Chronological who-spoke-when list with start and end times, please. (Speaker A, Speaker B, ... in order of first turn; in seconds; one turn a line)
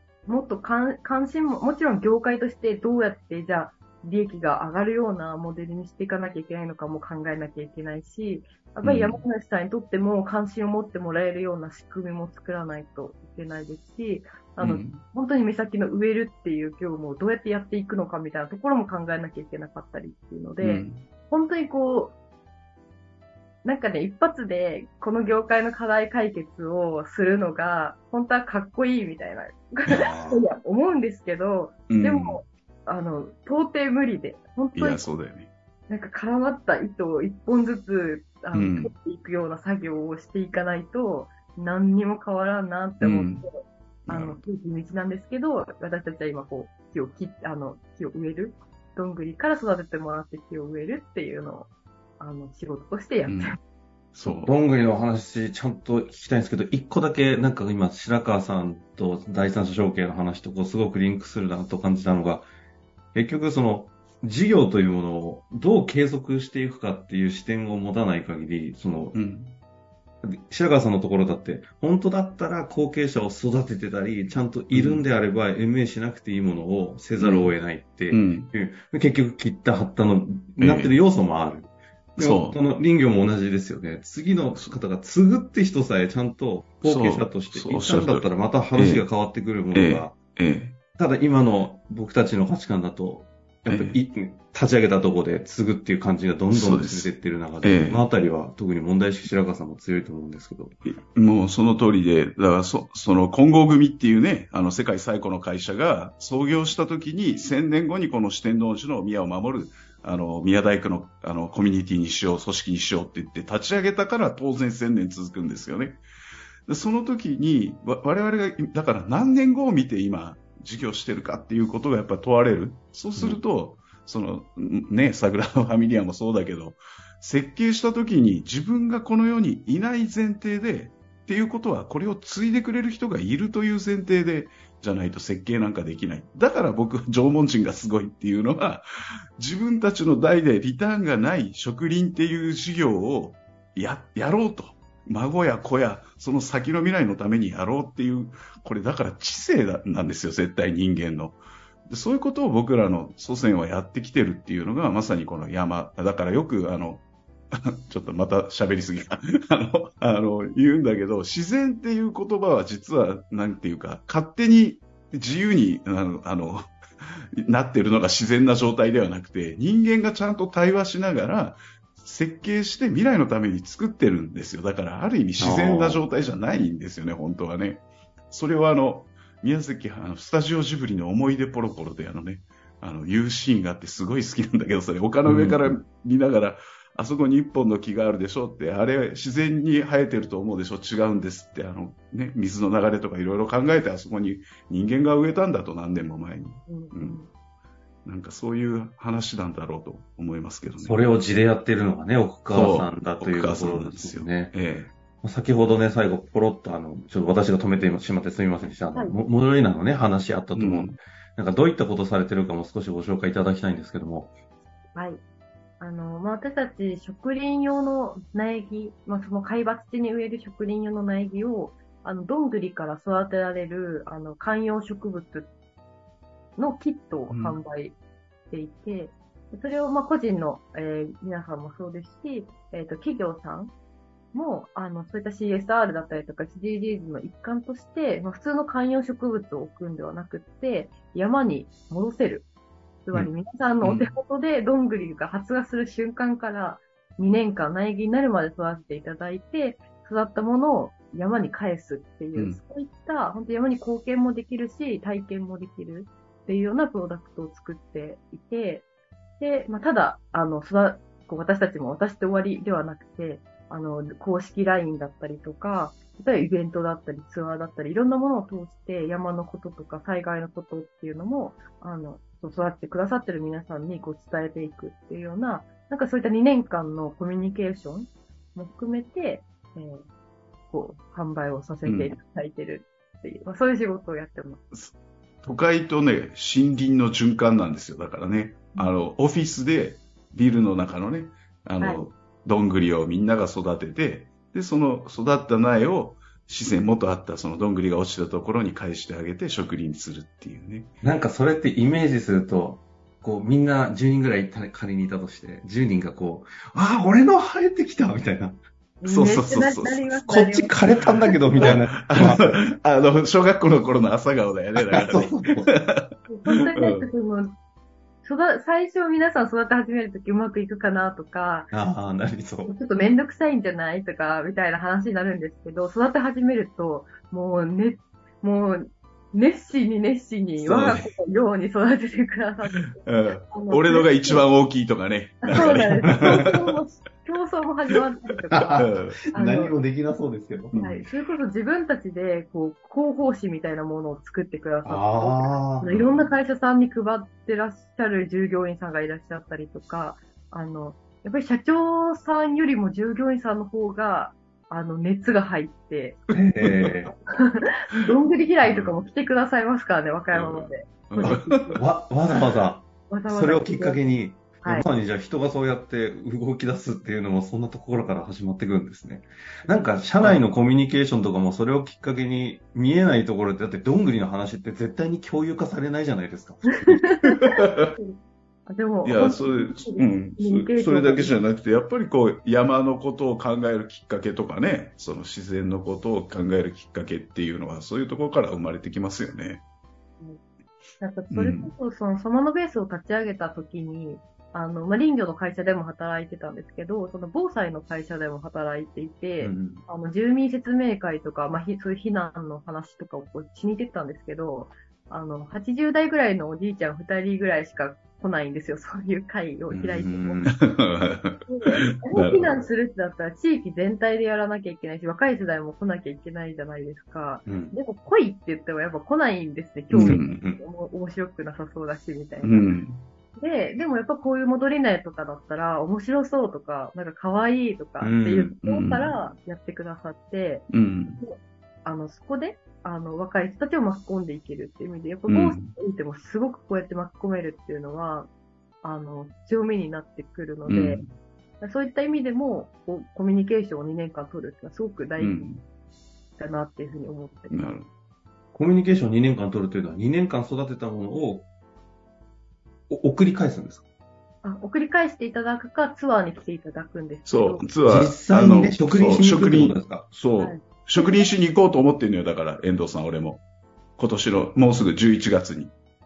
Speaker A: 0.2-22.1
Speaker B: 8.8-9.2
Speaker B: 14.6-15.0
Speaker B: 20.6-21.1
Speaker A: 23.6-35.0
Speaker C: 29.9-30.4
Speaker B: 31.9-32.4
Speaker B: 34.8-35.5
Speaker A: 35.9-53.6
Speaker B: 38.5-38.9
Speaker B: 43.0-43.5
Speaker B: 44.1-44.4
Speaker B: 53.2-53.6
Speaker B: 54.1-54.5
Speaker C: 54.2-62.5
Speaker C: 63.1-69.2
Speaker B: 69.1-69.6
Speaker C: 70.2-90.2
Speaker B: 74.7-75.0
Speaker B: 77.2-77.5
Speaker B: 78.1-78.5
Speaker B: 80.6-80.9
Speaker B: 82.2-82.6
Speaker B: 86.8-89.0
Speaker B: 89.7-90.8
Speaker C: 91.0-100.7
Speaker B: 93.7-94.0
Speaker B: 96.5-97.1
Speaker B: 97.6-98.0
Speaker B: 100.8-116.0
Speaker B: 116.7-138.9
Speaker C: 123.2-123.4
Speaker B: 139.4-151.4
Speaker B: 151.9-197.2
Speaker C: 175.4-176.0
Speaker C: 185.2-185.8
Speaker A: 196.7-197.3
Speaker B: 198.0-201.0
Speaker C: 200.8-204.5
Speaker B: 202.5-204.9
Speaker C: 205.2-214.3
Speaker B: 210.5-211.0
Speaker A: 214.9-215.2
Speaker A: 215.8-225.5
Speaker A: 226.6-228.0
Speaker B: 227.3-227.6
Speaker A: 228.5-233.7
Speaker A: 234.3-242.5
Speaker A: 243.1-258.8
Speaker B: 243.8-244.1
Speaker A: 259.4-280.0
Speaker A: 280.7-284.6
Speaker B: 281.8-282.2
Speaker B: 284.7-300.9
Speaker C: 301.0-308.6
Speaker A: 309.0-310.8
Speaker B: 309.0-310.2
Speaker C: 310.2-312.6
Speaker B: 311.0-317.1
Speaker C: 314.8-315.7
Speaker A: 316.3-317.5
Speaker A: 318.2-321.7
Speaker C: 321.7-322.7
Speaker A: 322.7-333.0
Speaker C: 330.6-331.1
Speaker B: 333.0-336.8
Speaker A: 333.5-334.4
Speaker A: 335.5-338.8
Speaker C: 335.5-336.5
Speaker C: 338.5-340.9
Speaker B: 338.8-339.2
Speaker A: 339.3-339.8
Speaker B: 340.7-341.0
Speaker A: 340.8-356.2
Speaker C: 344.8-346.3
Speaker C: 356.3-357.1
Speaker B: 356.3-356.9
Speaker A: 357.3-361.8
Speaker B: 358.6-358.9
Speaker B: 360.3-361.8
Speaker C: 361.2-377.0
Speaker A: 363.1-364.0
Speaker A: 376.8-381.3
Speaker B: 377.4-377.9
Speaker B: 379.0-389.6
Speaker A: 391.0-410.5
Speaker B: 391.3-391.7
Speaker C: 399.4-399.8
Speaker C: 409.7-410.5
Speaker B: 410.4-412.6
Speaker A: 411.5-422.8
Speaker C: 417.5-417.7
Speaker B: 419.9-420.4
Speaker C: 420.0-420.6
Speaker B: 422.4-423.0
Speaker A: 423.4-438.3
Speaker C: 428.0-428.5
Speaker B: 428.6-429.1
Speaker B: 430.7-431.2
Speaker B: 435.3-435.8
Speaker A: 438.8-441.0
Speaker B: 440.7-441.1
Speaker A: 441.6-445.5
Speaker B: 445.2-445.6
Speaker A: 446.4-447.7
Speaker B: 447.5-447.9
Speaker C: 448.5-451.5
Speaker C: 452.9-453.8
Speaker A: 454.4-457.7
Speaker B: 457.2-463.4
Speaker C: 457.9-460.1
Speaker A: 460.4-461.3
Speaker B: 464.0-465.7